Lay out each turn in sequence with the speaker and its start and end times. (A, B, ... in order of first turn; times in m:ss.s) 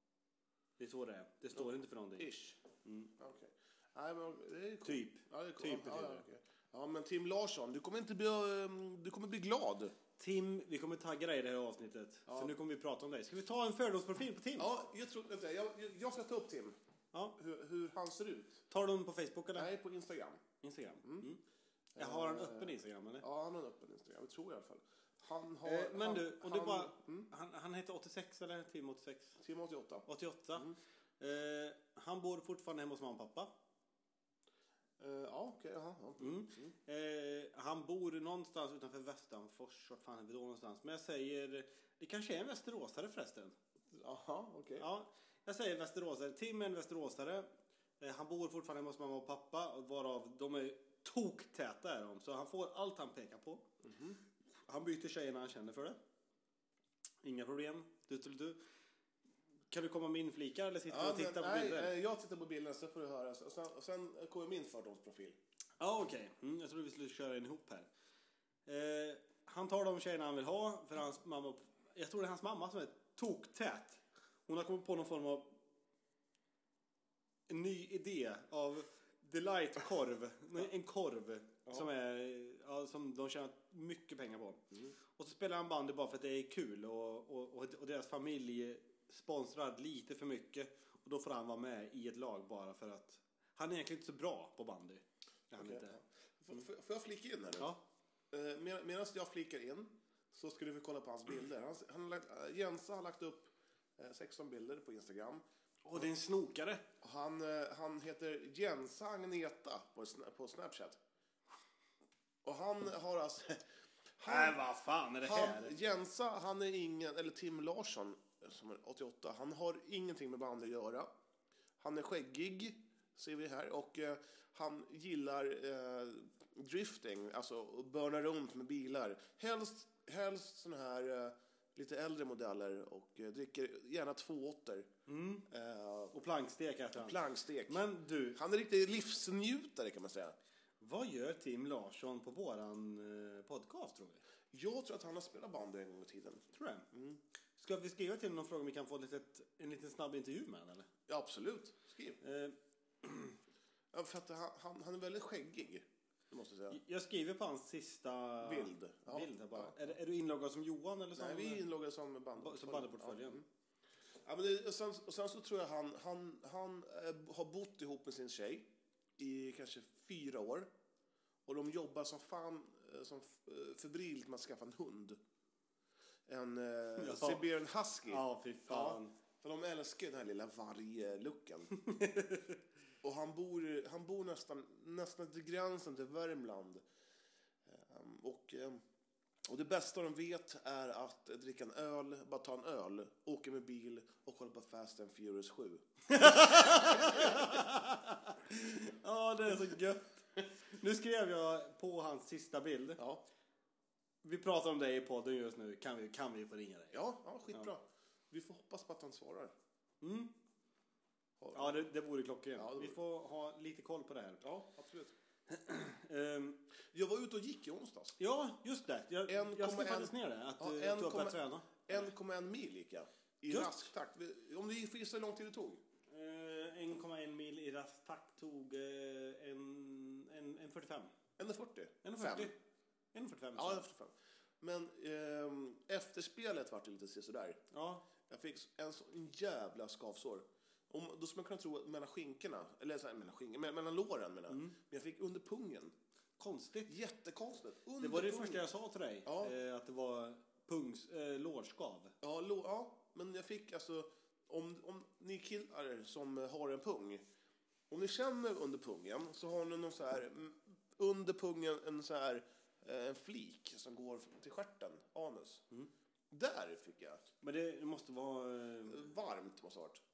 0:00.8-0:02.3 A
0:01.5-0:02.6 B
0:02.8-0:03.1 A
0:03.2-0:09.9 B
0:04.8-0:06.2 A
0:10.2-0:14.7 A
0:12.3-0:12.5 B
0:14.6-0:16.8 B
0:17.4-0:18.6 B
0:18.7-0:19.7 A
0:19.5-0:20.5 B
0:20.6-0:21.4 A
0:21.0-0:21.3 B
0:21.9-0:27.3 B
0:22.0-0:23.2 A
0:25.6-0:29.4 A
0:29.4-0:30.8 B
0:30.1-0:33.5 A
0:35.0-0:36.7 B
0:36.2-0:43.6 A
0:43.9-0:44.9 B
0:44.8-0:47.5 A
0:48.0-0:53.6 A
0:53.8-0:54.2 B
0:54.7-0:56.0 A
0:57.2-0:58.6 A
0:59.7-1:01.9 A
1:00.9-1:05.4 B
1:05.8-1:07.9 A
1:08.7-1:15.6 A
1:17.5-1:24.6 A
1:25.2-1:35.9 A
1:35.5-1:37.7 B
1:38.3-1:45.4 B
1:45.8-1:46.8 A
1:47.0-1:51.0 B
1:52.4-1:53.6 B
1:54.2-1:54.6 B
1:54.2-1:55.7 A
1:55.2-2:01.1 B
2:01.8-2:14.9 B
2:15.1-2:15.4 A
2:15.5-2:16.1 B
2:16.1-2:18.4 A
2:16.9-2:20.4 B
2:20.8-2:24.2 A
2:24.5-2:27.2 B
2:26.5-2:26.8 A
2:27.6-2:30.9 A
2:31.1-2:32.2 B
2:32.2-2:33.4 A
2:33.9-2:36.8 B
2:36.7-2:41.6 A
2:38.4-2:39.8 B
2:41.2-2:43.4 B
2:42.4-2:43.4 A
2:44.2-2:48.7 B
2:49.2-2:50.7 B
2:51.4-2:55.2 B
2:56.3-3:01.7 B
2:57.0-2:57.4 A
2:58.1-2:59.1 A
3:01.9-3:02.5 A
3:03.0-3:06.8 B
3:07.6-3:08.8 B
3:09.4-3:17.4 B
3:16.1-3:23.0 A
3:23.0-3:23.2 B
3:24.2-3:27.0 A
3:26.9-3:29.5 B
3:30.0-3:30.3 A
3:31.4-3:31.8 B
3:31.5-3:34.4 A
3:32.6-3:33.0 B
3:34.4-3:35.1 B
3:35.5-3:36.6 A
3:36.9-3:38.2 B
3:38.2-3:42.1 A
3:39.3-3:45.8 B
3:43.5-3:43.9 A
3:46.1-3:51.1 A
3:51.4-3:52.5 B
3:52.0-3:52.5 A
3:53.1-3:53.8 A
3:53.6-3:57.6 B
3:57.7-3:58.0 A
3:58.3-4:05.9 B
4:04.5-4:04.8 A
4:06.4-4:06.9 A
4:06.9-4:08.6 B
4:08.0-4:12.1 A
4:09.2-4:09.5 B
4:12.2-4:17.2 B
4:17.9-4:25.6 B
4:26.3-4:27.2 B
4:27.4-4:29.1 A
4:28.9-4:30.0 B